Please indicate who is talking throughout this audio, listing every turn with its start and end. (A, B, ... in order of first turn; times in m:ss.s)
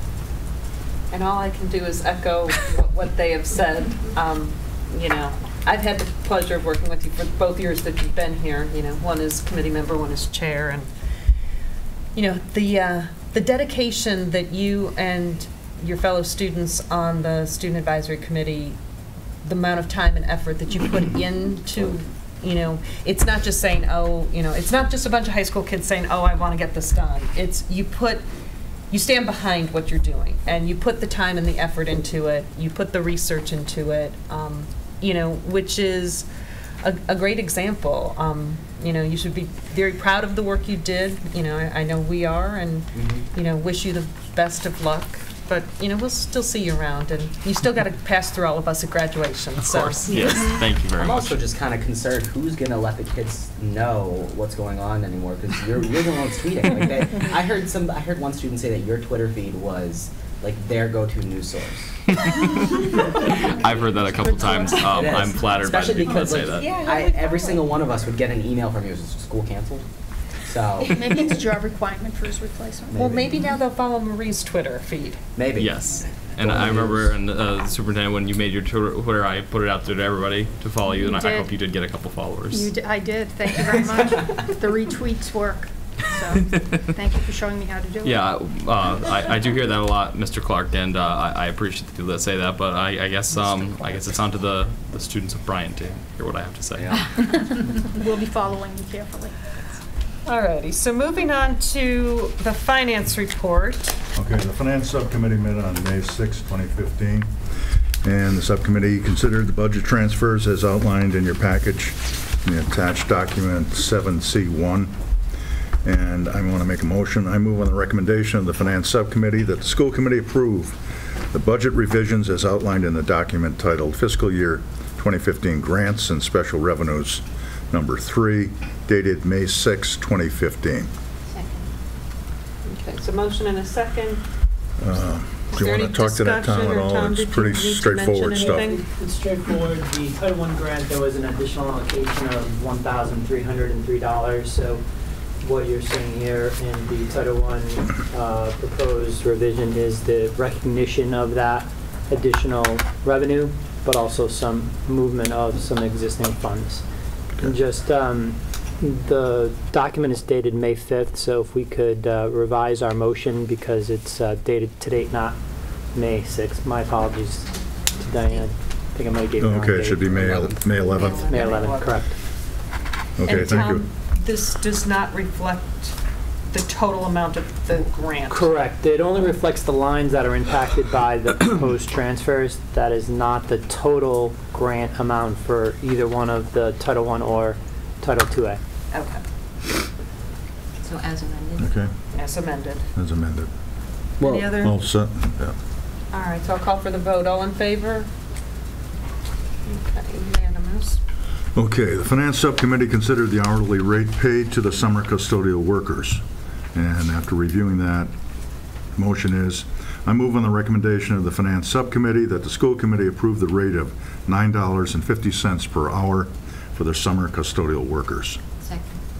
0:01.1-0:10.9 A
0:12.2-0:18.8 A
0:19.4-0:28.2 A
0:28.9-0:36.3 A
0:36.8-0:50.6 A
0:43.0-0:43.2 B
0:49.6-0:51.4 C
0:51.0-1:01.9 B
1:02.2-1:02.8 C
1:03.4-1:06.7 C
1:04.2-1:04.5 D
1:04.2-1:04.8 E
1:04.9-1:09.9 B
1:06.7-1:07.6 D
1:10.4-1:11.3 B
1:10.9-1:13.0 E
1:12.9-1:15.2 A
1:13.0-1:13.3 B
1:15.4-1:17.1 B
1:15.6-1:22.7 C
1:20.9-1:21.5 E
1:22.5-1:28.4 E
1:28.0-1:37.1 C
1:37.3-1:39.4 E
1:40.3-1:44.0 A
1:44.2-1:47.3 F
1:48.0-1:55.0 F
1:55.8-2:00.8 F
2:01.3-2:10.9 F
2:11.3-2:11.7 D
2:12.7-2:14.2 A
2:14.8-2:18.7 F
2:15.5-2:18.8 A
2:18.3-2:24.8 G
2:25.4-2:36.8 G
2:37.4-2:45.4 G
2:45.9-2:52.2 G
2:49.4-2:51.3 F
2:50.3-2:50.6 B
2:50.9-2:51.9 A
2:53.2-2:53.8 F
2:53.2-2:56.0 A
2:56.5-2:58.5 A
2:58.3-3:08.6 G
3:08.9-3:09.2 A
3:10.8-3:11.7 D
3:11.6-3:11.9 F
3:12.1-3:12.9 A
3:13.0-3:13.5 F
3:14.2-3:14.5 B
3:14.2-3:14.8 A
3:14.6-3:15.6 F
3:16.1-3:18.1 A
3:19.7-3:21.0 A
3:21.6-3:26.2 F
3:26.8-3:28.1 F
3:29.0-3:38.4 F
3:38.6-3:39.0 D